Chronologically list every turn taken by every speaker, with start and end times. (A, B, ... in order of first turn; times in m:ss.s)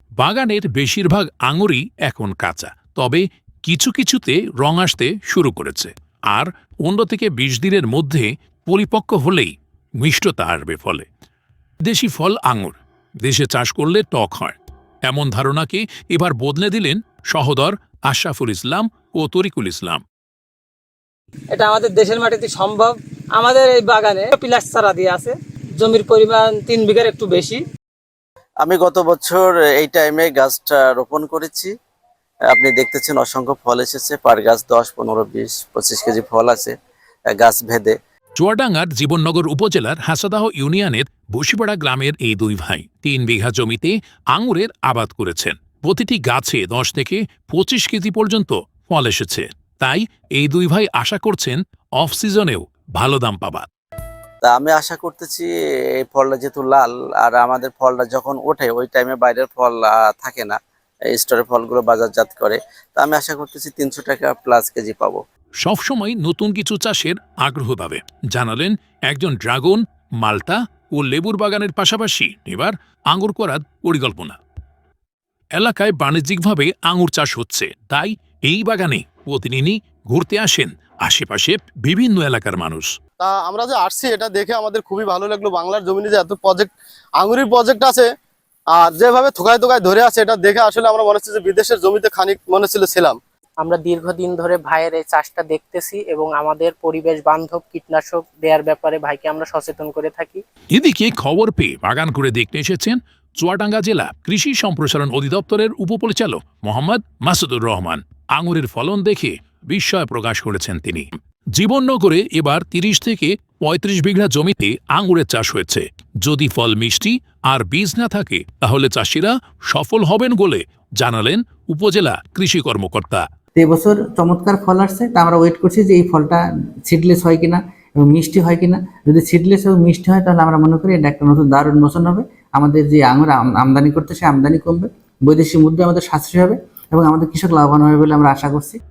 0:00.2-0:11.1 A
0:11.8-0:20.0 A
0:21.5-0:27.6 B
0:28.6-0:31.7 C
0:32.5-0:36.7 C
0:37.3-0:38.0 C
0:38.4-0:53.7 A
0:54.4-0:55.5 C
0:56.0-1:00.6 C
1:01.1-1:05.2 C
1:05.6-1:14.4 A
1:15.6-1:22.9 A
1:23.2-1:26.7 D
1:27.2-1:28.0 D
1:28.8-1:33.2 D
1:33.6-1:40.4 E
1:40.7-2:03.2 A
2:03.6-2:18.8 F